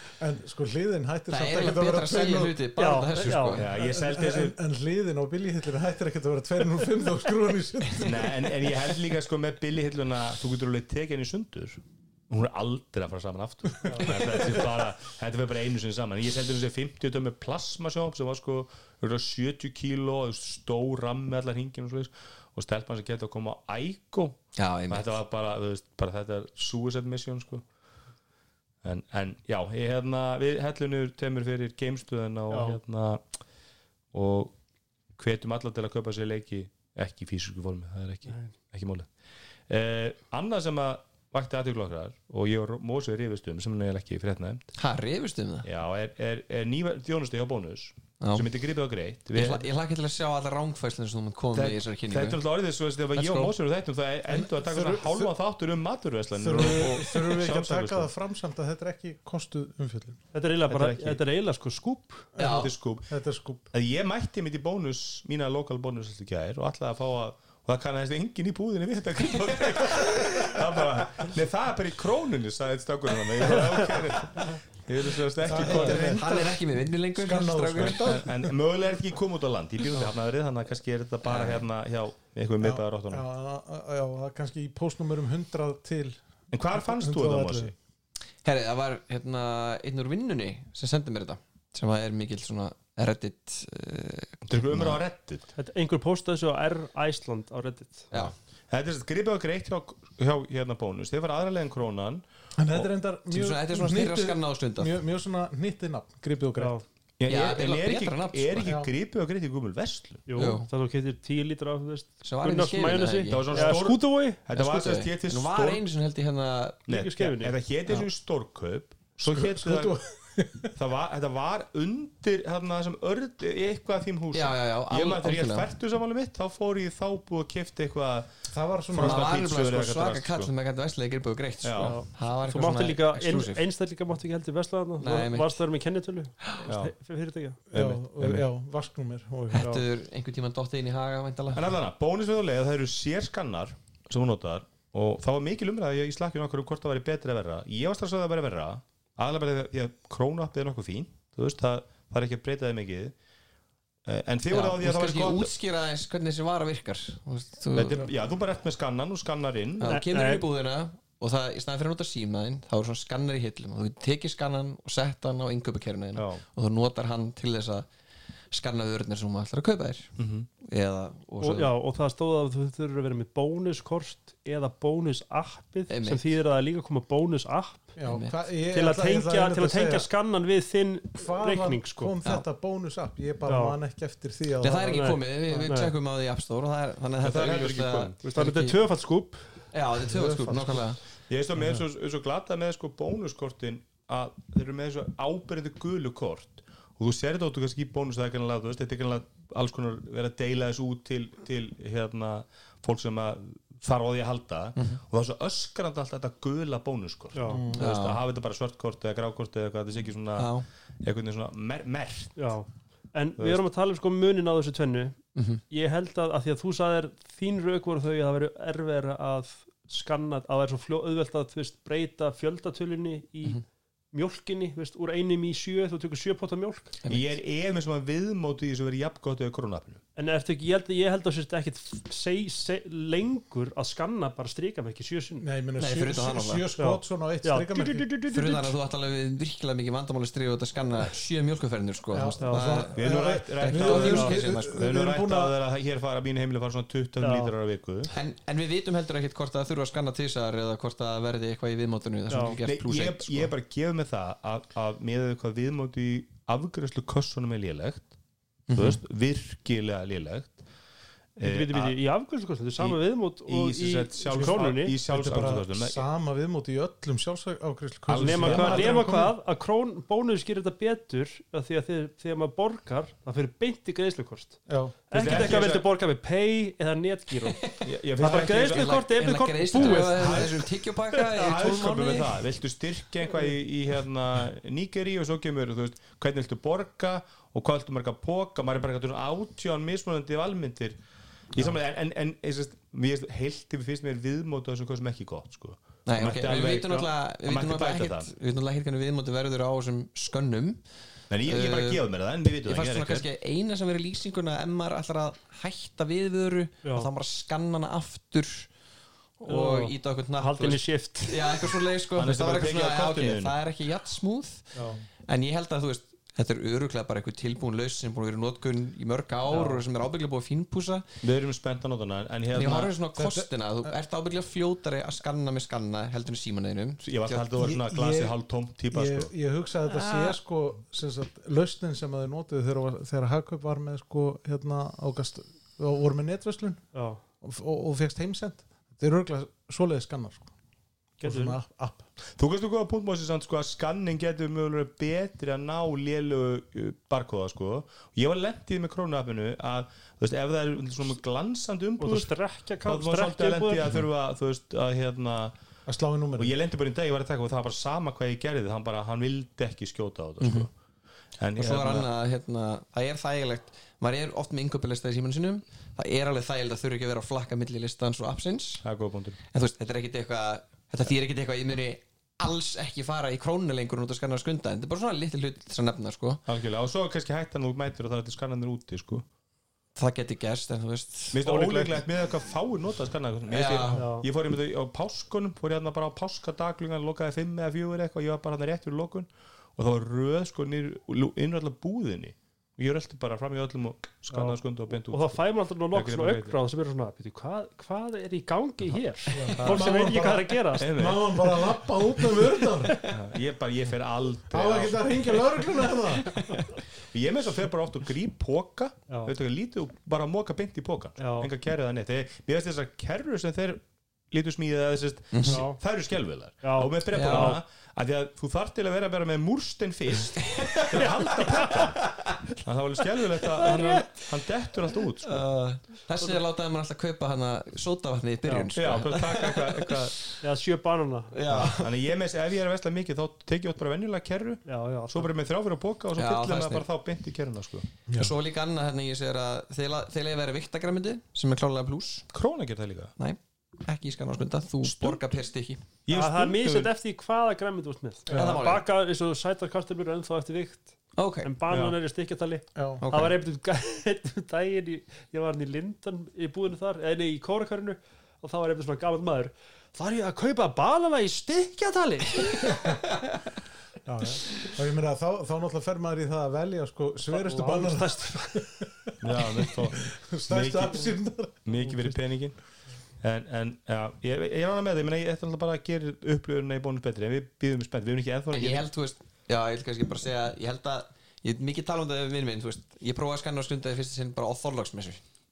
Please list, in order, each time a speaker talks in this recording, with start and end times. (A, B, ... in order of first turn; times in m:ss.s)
0:00.2-0:02.6 A
0:01.3-0:03.7 B
0:02.8-0:03.8 C
0:03.6-0:04.6 D
0:03.8-0:08.5 A
0:08.0-0:24.4 D
0:13.8-0:14.2 C
0:13.9-0:14.5 A
0:24.6-0:25.2 B
0:24.9-0:27.6 D
0:28.8-0:33.2 D
0:32.5-0:32.8 C
0:34.1-0:34.5 D
0:35.2-0:39.1 D
0:38.2-0:38.5 C
0:39.7-0:44.7 D
0:44.8-0:45.7 B
0:45.6-0:49.7 D
0:48.2-0:48.5 B
0:49.3-0:52.4 B
0:51.5-0:58.1 D
0:53.1-0:53.5 B
0:54.3-0:55.3 A
0:56.4-1:00.2 A
1:00.3-1:02.3 C
1:00.7-1:01.2 D
1:02.4-1:03.7 A
1:02.4-1:02.7 B
1:02.4-1:03.2 D
1:03.7-1:16.2 D
1:09.9-1:10.6 A
1:13.6-1:13.8 C
1:15.4-1:16.6 A
1:15.5-1:18.1 B
1:17.2-1:18.5 A
1:17.9-1:23.2 D
1:21.2-1:21.6 B
1:22.6-1:27.8 A
1:26.5-1:27.7 D
1:28.4-1:35.0 B
1:34.5-1:35.5 D
1:35.6-1:38.1 C
1:38.7-1:42.9 D
1:42.6-1:46.8 A
1:43.3-1:44.9 B
1:46.6-1:46.8 C
1:47.2-1:50.2 D
1:47.2-1:48.7 B
1:48.6-1:48.9 A
1:50.3-1:54.4 C
1:50.4-1:50.7 B
1:52.2-1:53.8 B
1:53.3-1:55.8 D
1:54.5-1:56.8 B
1:56.9-2:00.0 D
1:56.9-1:57.5 C
1:59.3-2:00.8 A
2:00.8-2:08.3 D
2:04.3-2:05.7 B
2:08.5-2:09.4 A
2:08.9-2:13.6 B
2:09.0-2:10.5 D
2:11.6-2:12.0 D
2:11.8-2:17.6 C
2:15.0-2:15.6 B
2:16.6-2:16.9 D
2:17.7-2:18.4 D
2:17.7-2:19.7 A
2:19.5-2:21.7 B
2:19.6-2:19.8 C
2:21.5-2:33.1 D
2:34.0-2:35.5 D
2:34.5-2:38.1 B
2:37.7-2:40.0 D
2:39.8-2:47.9 B
2:39.9-2:40.5 C
2:46.1-2:46.4 D
2:48.5-2:51.7 B
2:50.2-2:50.5 D
2:51.4-2:57.9 C
2:55.9-2:56.4 B
2:58.0-3:00.1 A
2:58.0-2:58.4 B
2:58.7-3:02.2 C
3:01.2-3:05.7 A
3:03.5-3:03.8 C
3:04.6-3:08.8 B
3:04.9-3:05.9 C
3:07.2-3:08.2 D
3:08.2-3:09.5 C
3:09.7-3:11.0 B
3:10.0-3:10.9 A
3:11.3-3:32.6 D
3:27.3-3:27.6 C
3:27.5-3:27.9 A
3:27.7-3:28.2 B
3:30.4-3:30.6 B
3:32.4-3:35.2 C
3:35.4-3:35.6 B
3:35.7-3:46.9 C
3:47.0-3:47.4 B
3:47.1-3:50.0 D
3:50.2-3:55.5 C
3:55.4-3:58.1 A
3:55.8-3:56.6 B
3:56.8-3:58.8 C
3:58.3-4:04.9 B
4:02.1-4:05.5 A
4:02.4-4:02.8 C
4:02.9-4:08.1 D
4:03.9-4:04.3 C
4:07.2-4:07.5 C
4:08.1-4:13.5 B
4:12.3-4:12.6 C
4:12.6-4:18.1 D
4:18.7-4:19.0 B
4:18.7-4:20.6 D
4:21.4-4:22.0 D
4:21.4-4:25.0 C
4:22.8-4:26.0 D
4:24.2-4:29.4 A
4:28.1-4:29.0 D
4:28.2-4:41.8 C
4:34.7-4:35.5 A
4:35.1-4:35.9 D
4:37.5-4:42.4 B
4:37.8-4:39.0 D
4:39.7-4:40.6 D
4:41.4-4:51.0 D
4:51.5-4:58.3 D
4:56.1-5:00.8 B
5:01.3-5:03.2 D
5:01.4-5:02.0 B
5:02.6-5:08.7 B
5:06.8-5:07.1 C
5:09.4-5:14.7 B
5:09.5-5:11.8 C
5:12.2-5:13.5 D
5:14.8-5:15.0 C
5:15.2-5:21.0 B
5:19.5-5:19.8 C
5:21.2-5:22.9 D
5:22.5-5:27.6 B
5:23.2-5:23.9 A
5:27.0-5:29.3 D
5:27.6-5:28.4 A
5:28.9-5:36.8 A
5:29.8-5:30.4 B
5:36.9-5:37.2 C
5:37.4-5:40.5 A
5:41.2-5:41.6 C
5:41.2-5:42.0 A
5:42.4-5:55.5 D
5:52.0-5:54.0 C
5:55.8-5:56.5 A
5:56.4-6:00.7 D
6:00.4-6:00.7 B
6:01.4-6:02.1 D
6:01.6-6:08.8 B
6:08.8-6:09.4 D
6:09.5-6:16.4 B
6:16.5-6:19.2 D
6:20.0-6:21.9 B
6:21.3-6:36.6 D
6:23.5-6:24.0 B
6:24.0-6:24.2 C
6:34.3-6:40.9 C
6:39.3-6:43.0 A
6:39.6-6:40.2 D
6:40.8-6:41.4 D
6:43.1-6:45.4 D
6:44.5-6:46.5 A
6:46.2-6:46.7 B
6:47.0-7:05.4 D
6:51.2-6:51.5 C
6:55.3-6:55.6 B
6:55.5-6:55.8 C
6:56.6-6:57.6 C
6:57.1-6:57.6 B
7:00.4-7:02.4 B
7:03.4-7:04.3 B
7:05.2-7:10.4 B
7:08.4-7:08.7 C
7:08.8-7:10.3 D
7:10.4-7:11.6 C
7:11.3-7:12.0 B
7:11.5-7:17.9 D
7:14.7-7:15.3 C
7:16.2-7:16.9 B
7:18.1-7:18.3 A
7:18.1-7:22.2 B
7:22.3-7:23.1 D
7:23.2-7:25.8 B
7:24.8-7:25.3 D
7:26.0-7:26.9 D
7:26.1-7:43.0 C
7:28.3-7:28.7 A
7:28.3-7:28.8 B
7:31.2-7:31.5 B
7:31.7-7:32.0 D
7:32.8-7:33.0 A
7:33.0-7:33.4 B
7:44.0-7:52.1 A
7:47.3-7:48.7 C
7:49.2-7:51.1 D
7:51.6-7:52.6 D
7:53.2-7:58.8 D
7:58.5-8:05.2 B